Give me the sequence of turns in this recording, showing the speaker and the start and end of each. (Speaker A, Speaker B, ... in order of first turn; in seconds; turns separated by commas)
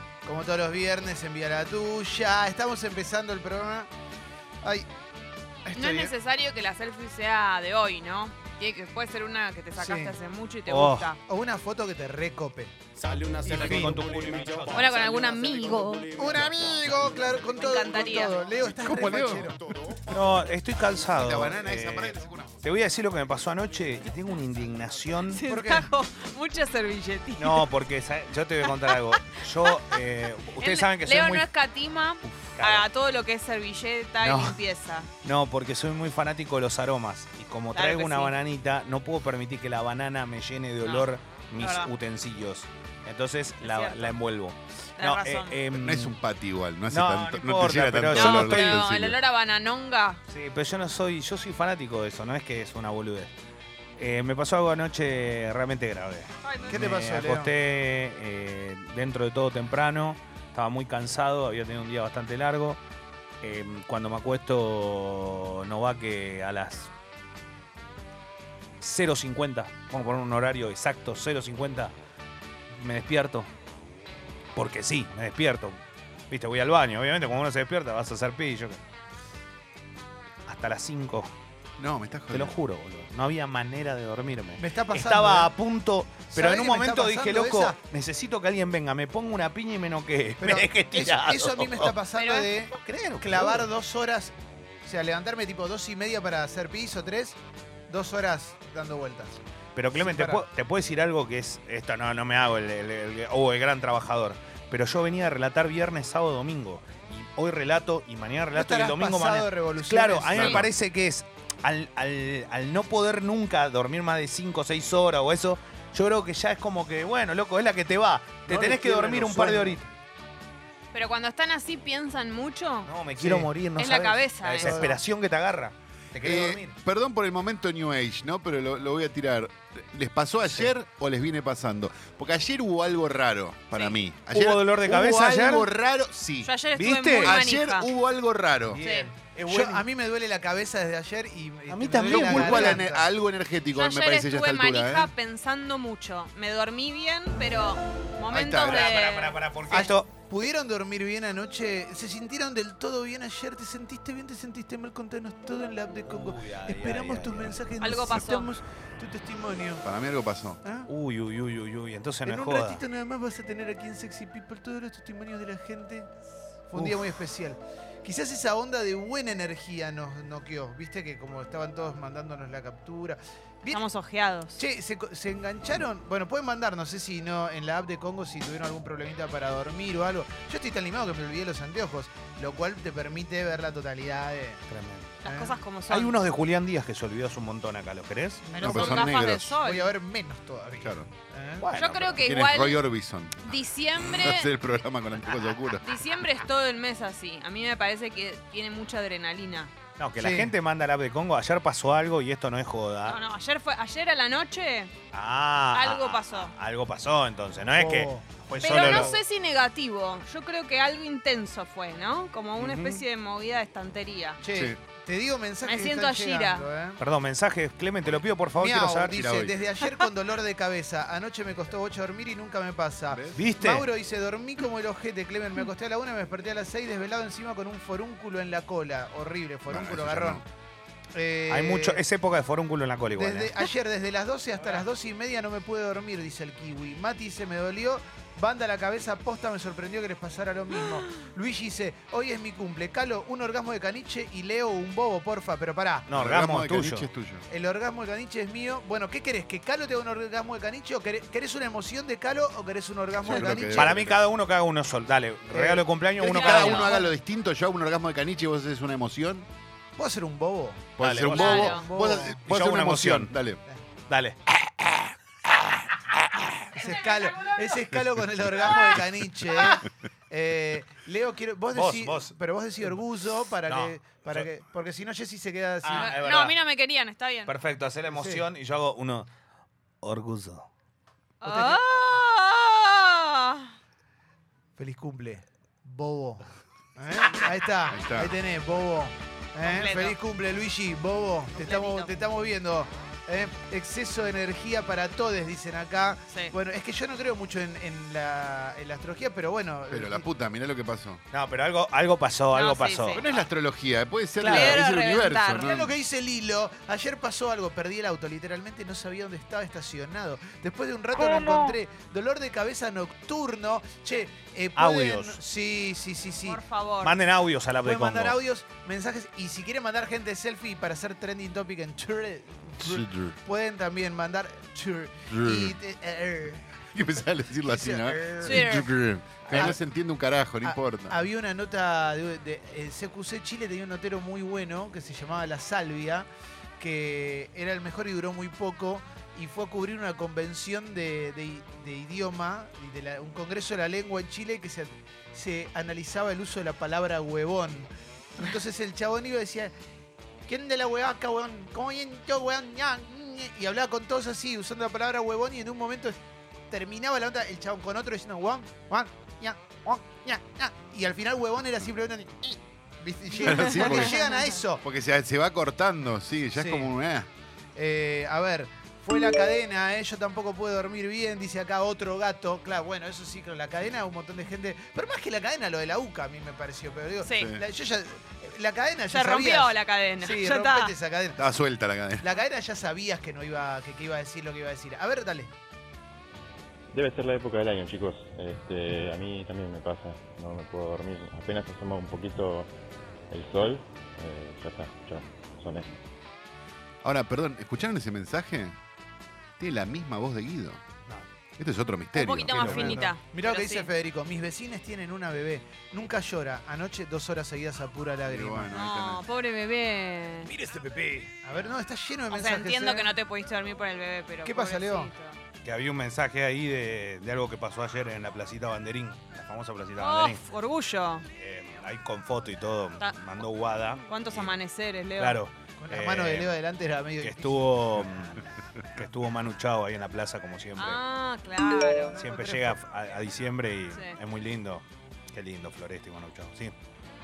Speaker A: 0.2-3.9, Speaker A: 4.6-4.9, Speaker A: 5.6-6.1, Speaker B: 5.7-11.2, Speaker A: 9.7-10.2, Speaker C: 10.7-11.1, Speaker A: 11.2-12.7, Speaker C: 13.0-15.1, Speaker A: 13.4-14.0, Speaker B: 14.7-16.2, Speaker A: 16.1-19.6, Speaker B: 17.6-18.3, Speaker D: 18.8-20.1, Speaker C: 20.1-25.4, Speaker D: 21.1-22.6, Speaker B: 25.3-27.7, Speaker A: 25.5-25.9, Speaker C: 27.4-31.4, Speaker B: 28.6-29.0, Speaker B: 29.6-30.0, Speaker B: 30.6-35.1, Speaker C: 32.2-32.9, Speaker C: 34.2-34.6, Speaker C: 35.2-46.1, Speaker B: 37.7-38.3, Speaker B: 41.6-41.9, Speaker B: 43.6-44.1, Speaker B: 45.0-45.6, Speaker D: 45.7-49.2, Speaker C: 46.9-48.8, Speaker B: 48.1-50.2, Speaker C: 50.3-53.3, Speaker C: 54.0-62.8, Speaker B: 56.4-56.8, Speaker A: 56.7-57.5, Speaker C: 63.4-66.9, Speaker C: 68.8-71.9, Speaker C: 72.7-73.5, Speaker C: 74.5-78.8, Speaker C: 80.5-81.3, Speaker D: 81.8-82.5, Speaker C: 82.3-92.0, Speaker A: 84.6-85.5, Speaker A: 86.3-87.8, Speaker A: 90.4-99.4, Speaker B: 92.2-92.5, Speaker C: 92.5-93.7, Speaker C: 99.8-119.8, Speaker A: 99.9-100.4, Speaker A: 108.5-110.7, Speaker A: 118.5-119.8, Speaker B: 120.9-122.9, Speaker C: 122.8-126.7, Speaker A: 123.2-123.5, Speaker B: 123.8-124.9, Speaker A: 124.6-125.0, Speaker D: 126.2-136.5, Speaker C: 134.3-135.7, Speaker B: 136.4-137.9, Speaker C: 136.7-137.4, Speaker D: 137.1-138.8, Speaker C: 138.7-139.8, Speaker B: 138.8-139.1, Speaker A: 138.9-143.1, Speaker C: 141.7-142.8, Speaker D: 142.0-145.1, Speaker B: 143.7-149.3, Speaker D: 148.3-148.9, Speaker C: 148.3-150.1, Speaker A: 149.7-159.8, Speaker C: 156.1-157.6, Speaker B: 157.8-158.5, Speaker D: 159.8-160.6, Speaker A: 160.6-160.9, Speaker C: 160.9-162.8, Speaker A: 162.3-166.1, Speaker A: 166.7-173.8, Speaker B: 173.7-174.6, Speaker A: 174.6-184.6, Speaker C: 184.7-185.2, Speaker B: 185.2-186.2, Speaker A: 185.2-185.6, Speaker C: 185.9-188.5, Speaker A: 188.5-191.6, Speaker B: 188.6-189.9, Speaker D: 188.6-189.6, Speaker D: 190.8-191.1, Speaker C: 191.6-192.3, Speaker B: 191.7-192.8, Speaker D: 192.2-195.8, Speaker B: 193.4-194.5, Speaker B: 195.7-199.7, Speaker C: 200.0-203.2, Speaker A: 200.2-200.5, Speaker B: 203.1-204.9, Speaker C: 205.1-209.1, Speaker B: 205.7-206.5, Speaker A: 207.8-209.1, Speaker B: 208.6-214.4, Speaker C: 212.6-213.0, Speaker A: 214.4-217.0, Speaker D: 214.5-214.8, Speaker B: 215.6-216.7, Speaker C: 217.0-219.2, Speaker A: 218.6-230.4, Speaker D: 219.1-219.6, Speaker D: 223.1-223.4, Speaker C: 223.3-223.8, Speaker D: 229.7-230.4, Speaker A: 231.1-232.0, Speaker C: 231.5-233.6, Speaker A: 233.2-246.1, Speaker C: 246.1-247.1, Speaker D: 246.1-247.4, Speaker A: 247.5-254.0, Speaker D: 253.2-254.2, Speaker C: 253.7-257.0, Speaker A: 255.5-257.1, Speaker D: 256.2-259.5, Speaker A: 259.9-260.9, Speaker D: 261.0-263.6, Speaker C: 261.0-261.8, Speaker B: 261.3-261.9, Speaker A: 261.5-262.4, Speaker C: 262.4-263.3, Speaker C: 264.1-264.4, Speaker A: 266.7-276.1, Speaker C: 271.7-272.3, Speaker C: 273.6-274.5, Speaker C: 275.8-276.5, Speaker B: 275.9-277.5, Speaker C: 277.5-279.3, Speaker A: 278.1-278.4, Speaker C: 280.0-280.7, Speaker B: 281.4-283.7, Speaker A: 281.4-281.8, Speaker A: 284.8-286.4, Speaker A: 287.0-300.2, Speaker D: 287.9-288.3, Speaker B: 289.6-290.2, Speaker B: 291.6-292.1, Speaker B: 296.3-296.5, Speaker D: 299.9-301.2, Speaker C: 301.3-303.2, Speaker B: 302.5-303.4, Speaker D: 303.1-305.9, Speaker B: 304.4-305.8, Speaker A: 304.5-304.7, Speaker A: 305.6-316.6, Speaker C: 314.8-315.4, Speaker B: 316.4-317.1, Speaker C: 317.0-318.4, Speaker A: 317.8-326.8, Speaker D: 322.8-323.4, Speaker D: 325.3-325.8, Speaker D: 326.9-331.2, Speaker A: 327.6-328.8, Speaker B: 328.4-328.9, Speaker C: 329.4-329.8, Speaker A: 330.6-336.3, Speaker A: 336.8-349.7, Speaker A: 350.4-356.2, Speaker A: 356.7-364.8, Speaker B: 363.4-364.4, Speaker D: 363.4-364.2, Speaker D: 364.8-367.3, Speaker A: 366.5-366.9, Speaker A: 367.7-381.4, Speaker B: 377.2-377.5, Speaker D: 377.3-377.6, Speaker B: 379.1-380.9, Speaker D: 381.4-382.3, Speaker A: 382.2-385.5, Speaker E: 386.9-392.7, Speaker E: 393.3-395.9, Speaker D: 397.0-398.8, Speaker D: 399.6-400.8, Speaker D: 401.6-403.1, Speaker B: 402.1-403.9, Speaker A: 402.5-408.7, Speaker D: 408.2-409.2, Speaker B: 408.7-410.5, Speaker C: 410.6-411.2, Speaker A: 411.0-413.1, Speaker B: 412.3-415.4, Speaker A: 414.4-415.1, Speaker C: 415.6-420.4, Speaker B: 420.0-421.2, Speaker C: 421.4-424.5, Speaker B: 424.1-425.4, Speaker C: 425.2-426.5, Speaker A: 425.8-427.8, Speaker C: 427.2-428.4, Speaker C: 428.9-431.0, Speaker B: 430.8-432.1, Speaker A: 432.1-432.8, Speaker C: 432.2-436.7